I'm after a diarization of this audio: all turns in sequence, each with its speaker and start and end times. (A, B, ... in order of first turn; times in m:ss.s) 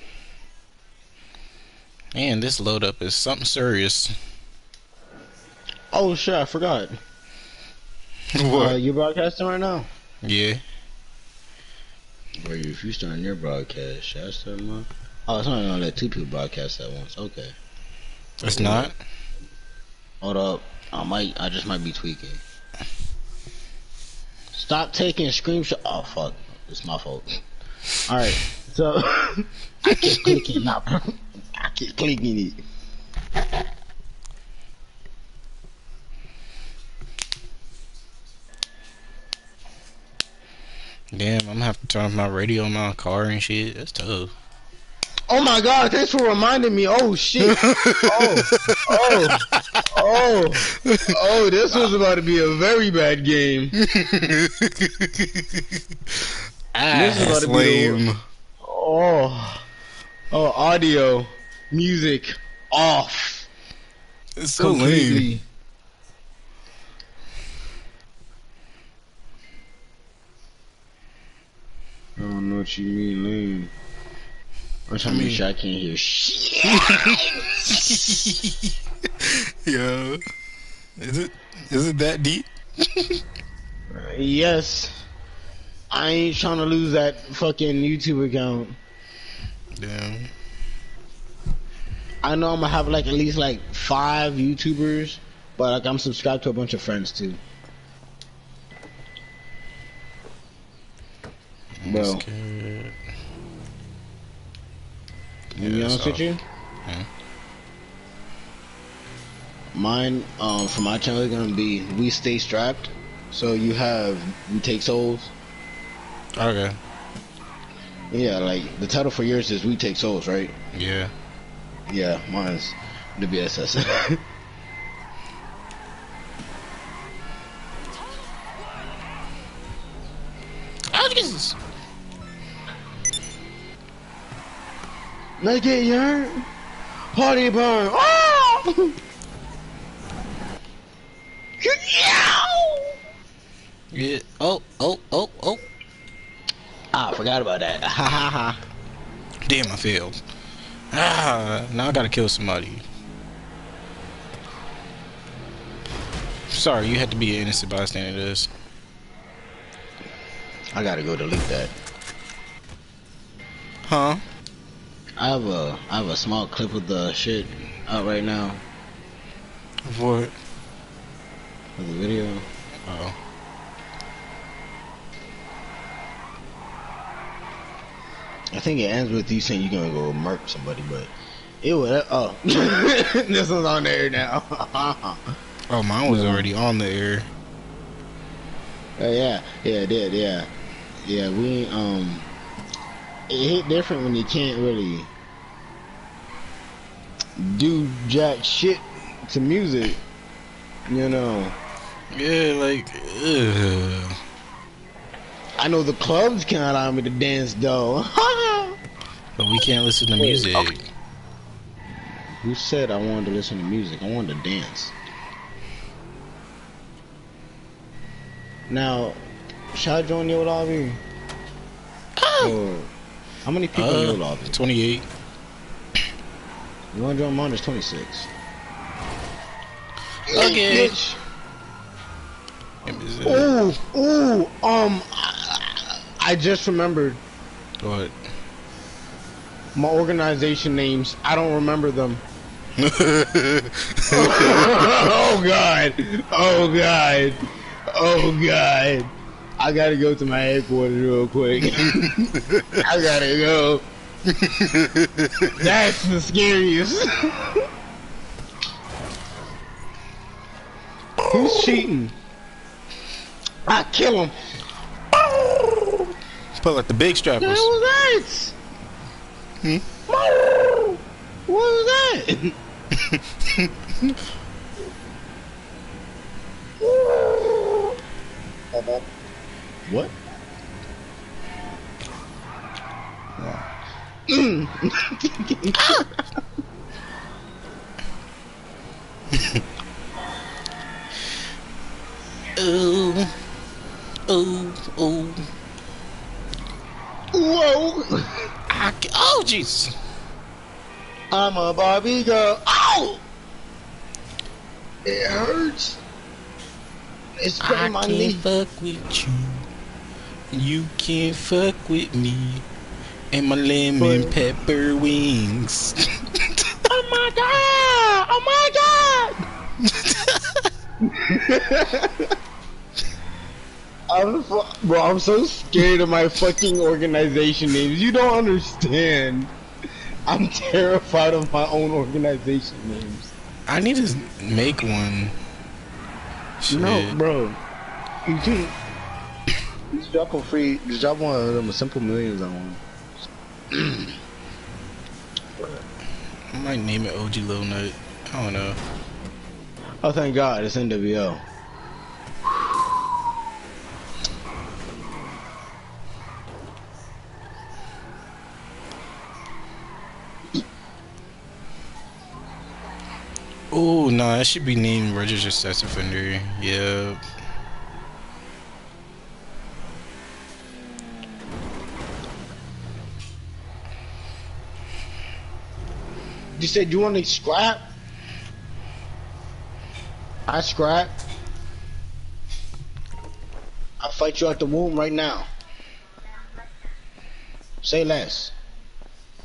0:02.1-0:04.1 A
0:05.9-0:07.0 B
0:08.3-0:08.8 A
0:08.5-0:09.9 B
0:10.2-0:10.6 A
0:12.4-0:17.6 B
0:18.4-0:19.0 A
0:18.4-0:18.9 B
0:20.2-0:22.4 B
0:24.5-0:27.4 B
0:28.0-0:32.6 B
0:41.1-0:44.3 A
0:45.3-0:53.7 B
0:47.4-0:49.9 A
0:50.7-0:51.2 A
0:53.8-0:58.2 A
0:56.9-0:58.0 B
0:58.6-0:59.6 B
1:00.3-1:03.5 B
1:04.4-1:05.3 A
1:04.6-1:05.4 B
1:12.2-1:13.7 B
1:14.9-1:18.1 B
1:15.0-1:15.4 A
1:16.7-1:20.2 A
1:21.0-1:23.2 A
1:23.9-1:25.0 B
1:25.9-1:28.8 B
1:29.8-1:30.3 A
1:32.2-1:37.4 B
1:41.8-1:43.0 A
1:41.8-1:42.2 B
1:45.5-1:46.2 A
1:45.6-1:46.4 B
1:49.7-1:55.3 B
1:56.4-1:56.8 A
1:58.1-2:00.5 B
2:00.7-2:01.1 A
2:01.9-2:04.2 B
2:10.9-2:11.6 A
2:15.4-2:16.4 B
2:17.1-2:19.0 B
2:21.6-2:23.0 B
2:23.9-2:25.6 A
2:26.9-2:28.6 B
2:29.4-2:30.2 A
2:30.9-2:32.8 A
2:36.5-2:38.5 A
2:40.7-2:41.7 B
2:43.8-2:44.2 A
2:45.2-2:48.6 B
2:49.8-2:50.3 A
2:51.8-2:52.5 B
2:52.8-2:53.1 A
2:58.5-3:05.2 B
3:05.7-3:07.3 A
3:06.0-3:06.5 B
3:09.0-3:10.5 B
3:11.0-3:12.3 B
3:13.3-3:15.1 B
3:17.4-3:20.0 B
3:20.9-3:21.6 B
3:22.1-3:24.2 A
3:25.6-3:28.8 B
3:29.4-3:30.8 A
3:30.2-3:30.7 B
3:32.4-3:34.9 B
3:38.7-3:39.2 B
3:39.7-3:41.0 B
3:42.2-3:42.6 A
3:42.4-3:42.9 B
3:43.4-3:44.6 B
3:43.7-3:45.0 A
3:46.9-3:48.3 B
3:50.3-3:51.2 B
3:50.3-3:50.9 A
3:52.8-3:53.5 A
3:53.2-3:57.2 B
3:57.8-3:58.1 A
3:59.7-4:02.2 B
4:02.8-4:04.7 A
4:04.1-4:07.4 B
4:07.9-4:13.8 B
4:11.9-4:12.8 A
4:14.3-4:15.6 A
4:15.6-4:17.7 B
4:21.3-4:22.1 B
4:23.6-4:24.3 B
4:25.1-4:26.1 B
4:26.6-4:27.7 A
4:27.4-4:28.6 B
4:30.1-4:32.6 B
4:33.0-4:34.1 A
4:36.8-4:38.0 B
4:38.7-4:39.0 B
4:39.8-4:40.1 B
4:44.3-4:46.0 B
4:45.8-4:46.1 A
4:49.3-4:49.6 A
4:52.6-4:53.3 A
4:54.3-4:55.4 A
4:57.3-4:58.3 B
4:58.7-4:59.9 A
5:01.3-5:03.2 B
5:05.0-5:06.0 B
5:07.4-5:08.4 B
5:07.6-5:09.6 A
5:10.5-5:12.6 A
5:13.3-5:16.0 A
5:14.0-5:14.4 B
5:16.9-5:19.4 B
5:19.8-5:20.6 A
5:21.0-5:22.3 B
5:24.1-5:29.5 B
5:30.3-5:33.3 B
5:33.7-5:35.3 A
5:36.6-5:37.2 A
5:36.7-5:37.6 B
5:38.2-5:38.8 B
5:39.9-5:42.8 B
5:43.7-5:44.2 B
5:46.5-5:48.8 A
5:50.0-5:51.4 B
6:03.7-6:07.2 A
6:16.6-6:17.8 B
6:20.5-6:21.1 B
6:24.0-6:25.5 B
6:27.8-6:28.5 B